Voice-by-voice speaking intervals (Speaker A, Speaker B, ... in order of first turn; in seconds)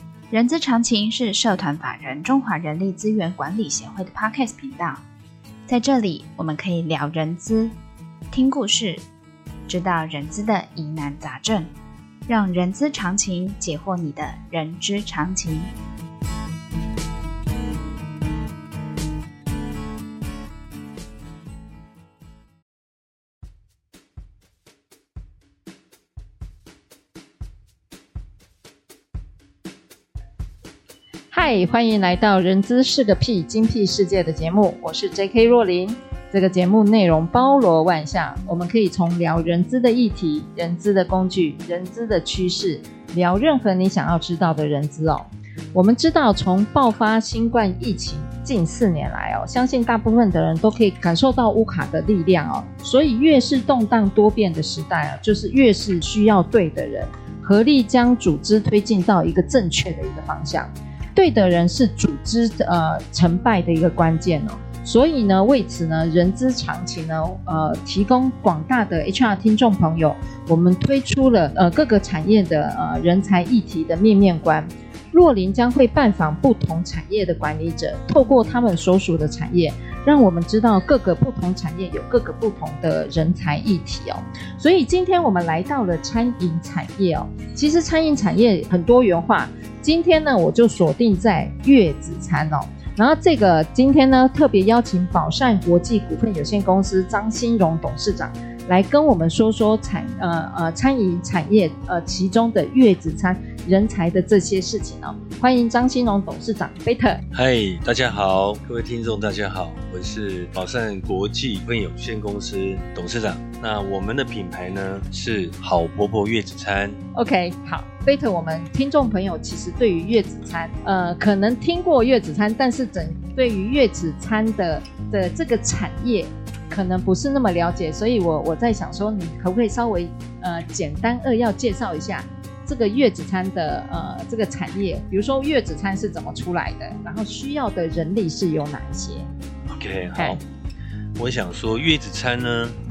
Speaker A: 0.3-5.0, 5.7-7.8, 8.3-9.0, 9.7-11.7, 12.3-15.7
Speaker B: 31.3-107.2, 117.1-139.3, 140.2-140.4
Speaker C: 107.3-117.0, 139.7-140.4, 141.2-142.8